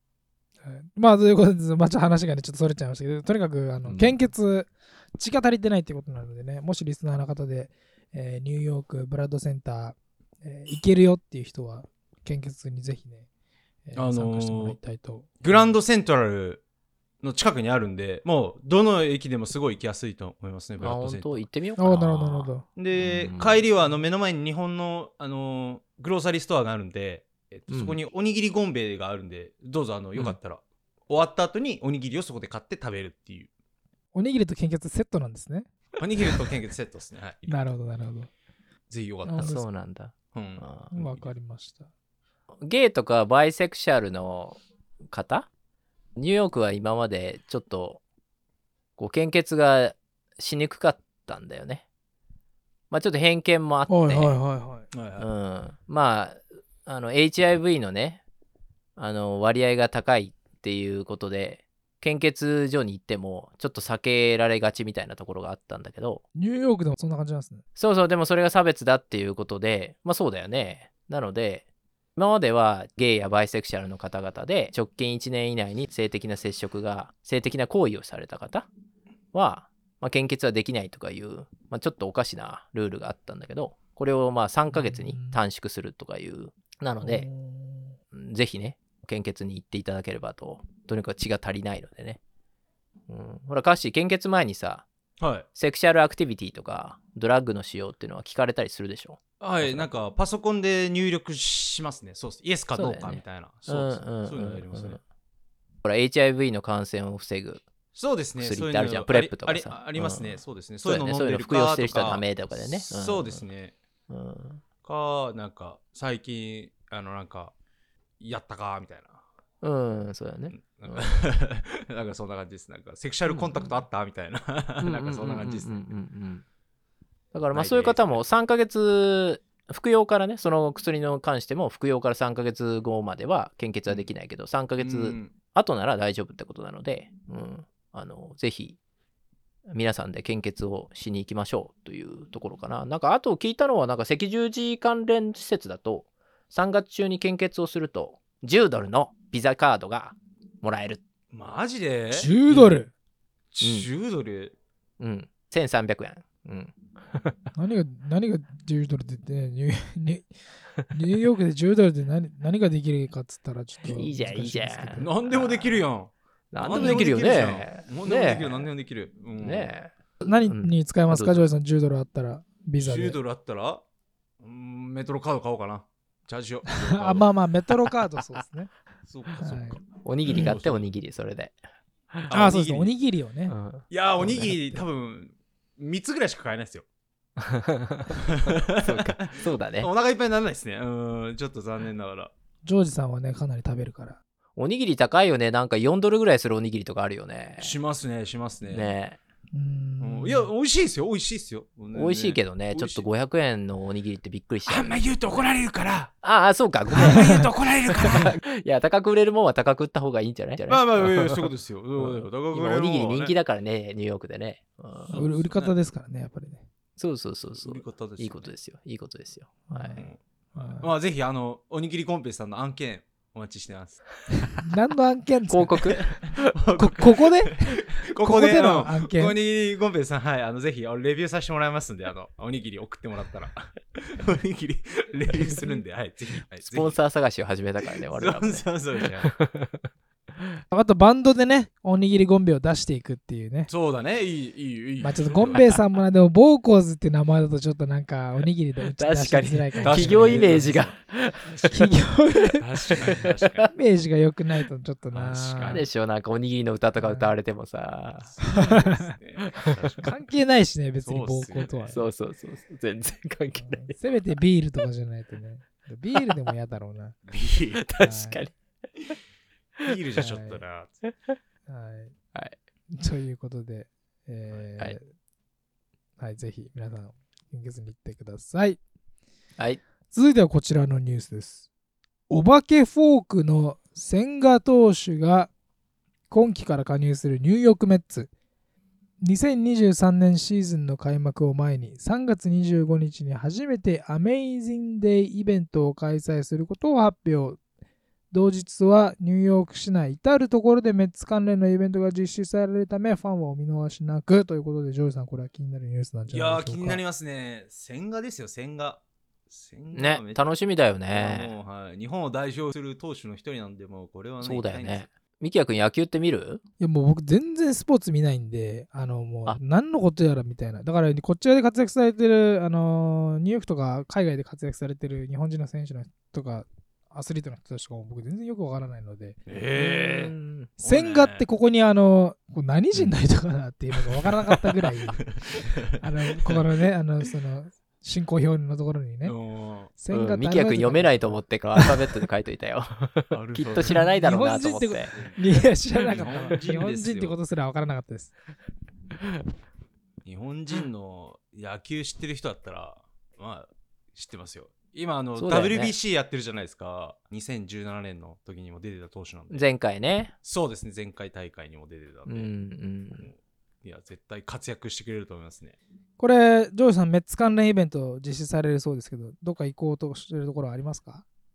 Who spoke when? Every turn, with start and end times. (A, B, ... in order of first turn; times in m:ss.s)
0:00.6-0:13.2 A
0:03.8-0:04.2 B
0:13.8-0:15.7 A
0:13.9-0:14.8 B
0:15.4-0:16.6 B
0:17.2-0:21.4 B
0:20.8-0:23.6 C
0:21.8-0:22.6 A
0:22.7-0:33.5 B
0:27.7-0:28.0 C
0:34.1-0:35.7 A
0:36.0-0:37.6 B
0:37.5-0:38.3 A
0:38.9-0:39.6 B
0:39.2-0:39.6 A
0:39.4-0:40.9 C
0:40.3-0:41.2 B
0:40.9-0:41.9 A
0:42.6-0:45.5 C
0:46.2-0:48.0 C
0:49.0-0:51.8 C
0:52.9-0:54.4 C
0:53.9-0:54.9 A
0:54.9-0:55.3 B
0:55.2-0:58.2 C
0:59.0-1:06.2 C
1:06.3-1:07.6 A
1:07.8-1:11.6 C
1:12.2-1:18.7 C
1:19.3-1:27.3 C
1:24.7-1:25.4 A
1:27.0-1:28.0 A
1:28.1-1:32.2 C
1:33.1-1:34.8 C
1:35.2-1:35.4 B
1:35.5-1:39.9 C
1:39.4-1:45.0 B
1:42.7-1:45.0 C
1:45.8-1:47.6 C
1:47.9-1:53.7 B
1:48.4-1:53.4 C
1:54.1-1:54.6 C
1:54.8-1:57.5 B
1:58.2-1:59.2 B
1:59.6-2:01.1 C
2:00.5-2:05.7 B
2:03.3-2:03.6 C
2:04.8-2:06.4 C
2:07.3-2:18.8 C
2:07.5-2:08.2 B
2:14.8-2:15.3 B
2:19.7-2:31.0 C
2:31.3-2:32.7 B
2:32.1-2:32.9 A
2:33.5-2:34.5 B
2:33.6-2:33.9 C
2:35.0-2:37.3 C
2:37.6-2:40.3 A
2:40.9-2:45.1 A
2:43.8-2:45.8 C
2:45.0-2:49.7 B
2:46.5-2:48.7 C
2:46.8-2:47.0 A
2:49.4-2:51.5 C
2:50.2-2:53.2 A
2:52.8-2:53.8 B
2:54.4-2:57.3 B
2:56.6-2:58.7 A
2:59.1-3:00.9 B
2:59.4-2:59.8 A
3:00.0-3:01.6 C
3:02.3-3:02.9 B
3:02.3-3:03.5 A
3:03.5-3:04.5 C
3:03.9-3:06.8 B
3:04.2-3:04.8 A
3:07.4-3:09.9 C
3:08.2-3:12.3 B
3:12.6-3:14.2 A
3:14.6-3:17.7 C
3:17.6-3:18.9 B
3:18.7-3:19.2 C
3:19.5-3:20.5 A
3:20.0-3:23.1 B
3:21.9-3:25.4 C
3:24.6-3:26.1 B
3:26.2-3:35.2 C
3:26.9-3:28.3 B
3:27.0-3:27.4 A
3:30.7-3:33.3 B
3:35.1-3:35.7 B
3:35.1-3:36.6 A
3:37.0-3:40.0 C
3:37.6-3:38.5 B
3:39.7-3:40.9 A
3:40.0-3:44.0 B
3:44.6-3:46.1 A
3:45.5-3:46.5 C
3:45.9-3:57.0 B
3:46.8-3:49.4 A
3:56.6-3:59.8 C
3:57.8-3:59.3 B
4:00.7-4:03.7 A
4:03.7-4:05.7 B
4:05.0-4:10.8 A
4:09.0-4:11.8 C
4:09.8-4:10.9 B
4:11.5-4:11.9 B
4:11.7-4:12.6 A
4:12.6-4:13.7 B
4:12.9-4:13.7 C
4:13.7-4:15.9 A
4:15.1-4:15.9 B
4:15.7-4:18.4 C
4:17.0-4:17.3 A
4:18.2-4:20.2 B
4:18.4-4:19.1 A
4:19.4-4:20.0 C
4:20.0-4:22.0 A
4:21.0-4:22.0 B
4:21.9-4:24.0 C
4:23.5-4:27.2 A
4:27.3-4:27.8 B
4:27.8-4:29.2 C
4:28.0-4:28.4 A
4:29.8-4:30.9 B
4:30.2-4:30.6 A
4:31.7-4:32.1 A
4:32.9-4:35.0 A
4:36.2-4:38.8 A
4:40.1-4:41.6 A
4:42.3-4:45.5 A
4:46.3-4:48.3 A
4:49.2-4:57.6 A
4:58.3-5:07.0 A
5:06.3-5:10.4 B
5:09.9-5:11.5 C
5:11.1-5:15.1 B
5:14.4-5:16.6 C
5:16.8-5:29.4 A
5:29.5-5:31.4 B
5:29.8-5:30.7 C
5:30.8-5:39.3 A
5:35.1-5:36.6 B
5:39.2-5:39.9 B
5:40.0-5:42.1 A
5:40.1-5:45.1 C
5:43.3-5:44.0 B
5:43.9-5:48.3 A
5:45.1-5:47.4 B
5:46.1-5:46.4 C
5:50.2-5:59.6 B
5:55.4-5:55.9 C
5:59.5-6:00.3 C
6:00.4-6:02.5 B
6:02.2-6:03.3 C
6:03.1-6:05.7 B
6:06.2-6:11.2 A